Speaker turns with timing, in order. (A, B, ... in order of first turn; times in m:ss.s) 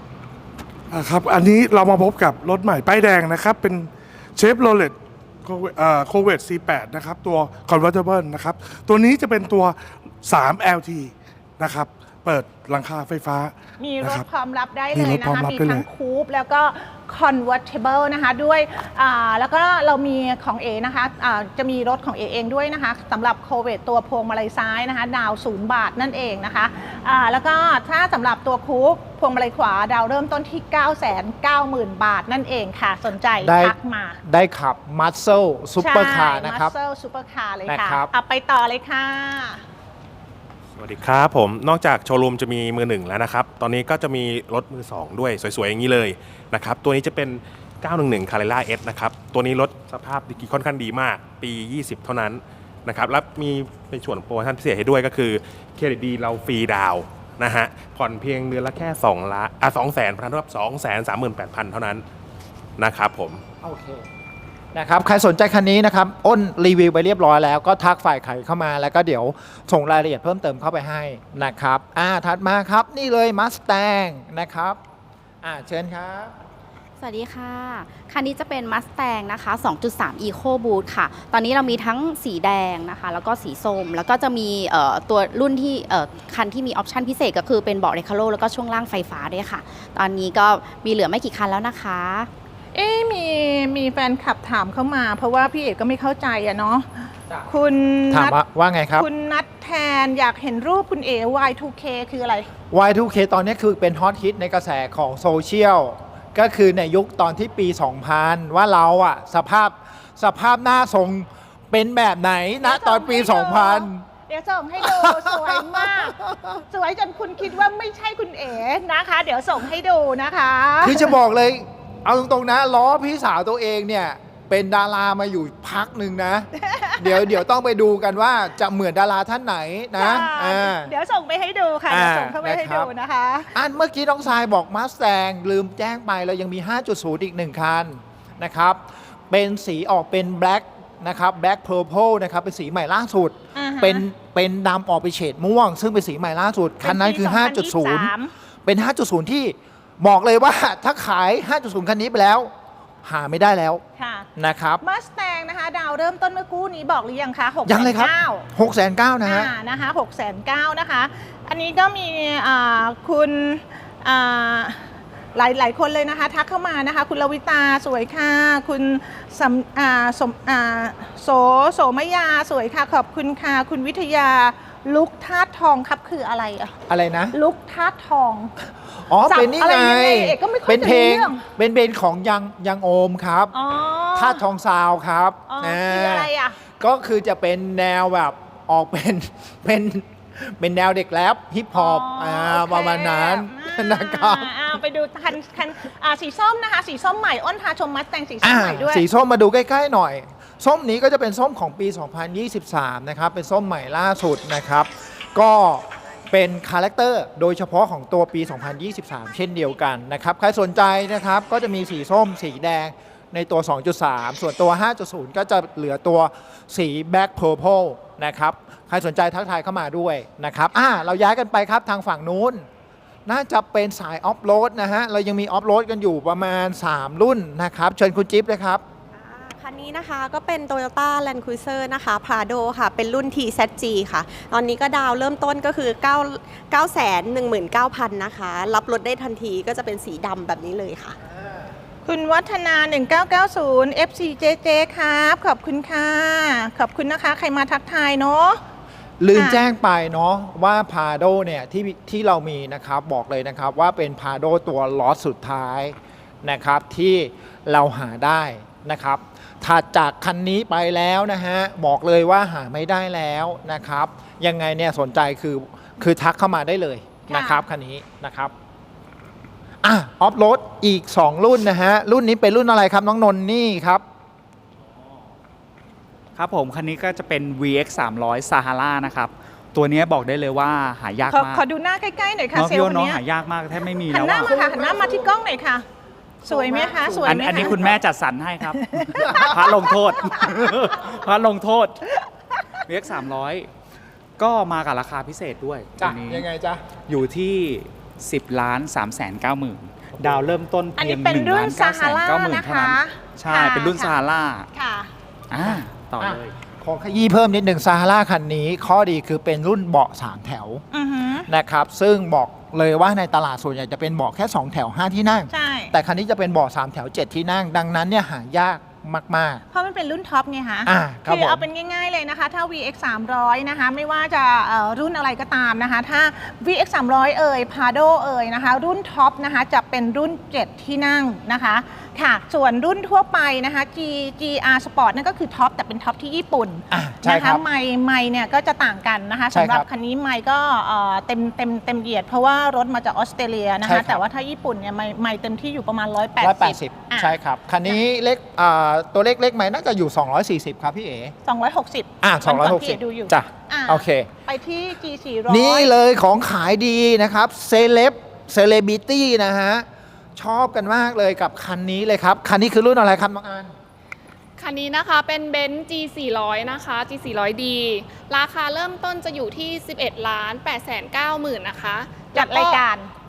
0:00.9-0:14.2 A
0:13.8-0:34.2 B
0:14.9-0:15.8 A
0:33.4-0:36.7 C
0:35.8-0:39.6 B
0:37.7-0:38.1 C
0:40.8-1:02.0 D
1:02.8-1:03.4 D
1:03.6-1:04.0 C
1:04.7-1:14.8 C
1:15.4-1:16.3 C
1:17.0-1:32.3 E
1:32.7-1:38.4 B
1:38.1-1:39.1 C
1:39.0-1:42.5 B
1:42.7-1:54.0 C
1:52.6-2:01.1 B
1:54.8-1:56.4 C
2:00.8-2:10.9 C
2:06.7-2:07.3 B
2:10.0-2:13.5 B
2:11.9-2:12.9 C
2:13.5-2:28.1 C
2:23.5-2:24.0 B
2:26.8-2:28.3 B
2:28.6-2:32.5 C
2:33.0-2:33.8 C
2:34.0-2:34.3 B
2:34.4-2:34.8 C
2:34.8-2:38.4 B
2:37.6-2:39.5 C
2:39.2-2:56.8 B
2:56.9-2:57.4 C
2:57.3-2:58.5 B
2:59.0-3:03.5 C
2:59.3-3:01.4 B
3:03.5-3:04.4 B
3:04.1-3:14.5 C
3:05.5-3:06.6 B
3:11.7-3:19.0 B
3:18.4-3:42.6 C
3:43.2-3:48.8 C
3:49.1-4:01.2 F
4:02.0-4:08.6 B
4:09.2-4:28.5 C
4:09.3-4:09.6 B
4:27.3-4:27.6 B
4:29.8-4:34.0 C
4:36.4-4:41.6 G
4:41.3-4:43.2 B
4:42.5-4:44.5 G
4:44.1-4:45.8 B
4:46.4-4:47.9 B
4:46.9-4:47.8 C
4:47.2-4:51.9 G
4:49.0-4:49.6 B
4:49.1-4:49.5 C
4:52.9-4:53.7 G
4:54.4-4:56.4 G
4:56.0-4:56.9 C
4:57.1-5:04.6 G
5:01.0-5:04.1 B
5:04.7-5:05.1 B
5:05.5-5:06.5 G
5:05.6-5:10.8 C
5:10.9-5:11.5 B
5:11.5-5:19.6 C
5:15.5-5:16.0 B
5:19.7-5:48.0 B
5:20.8-5:21.6 C
5:36.9-5:37.6 C
5:39.5-5:39.8 C
5:43.8-5:44.2 C
5:46.4-5:51.3 C
5:51.4-5:55.9 B
5:52.2-5:54.3 C
5:55.5-6:03.7 C
6:04.6-6:12.8 H
6:12.3-6:13.1 B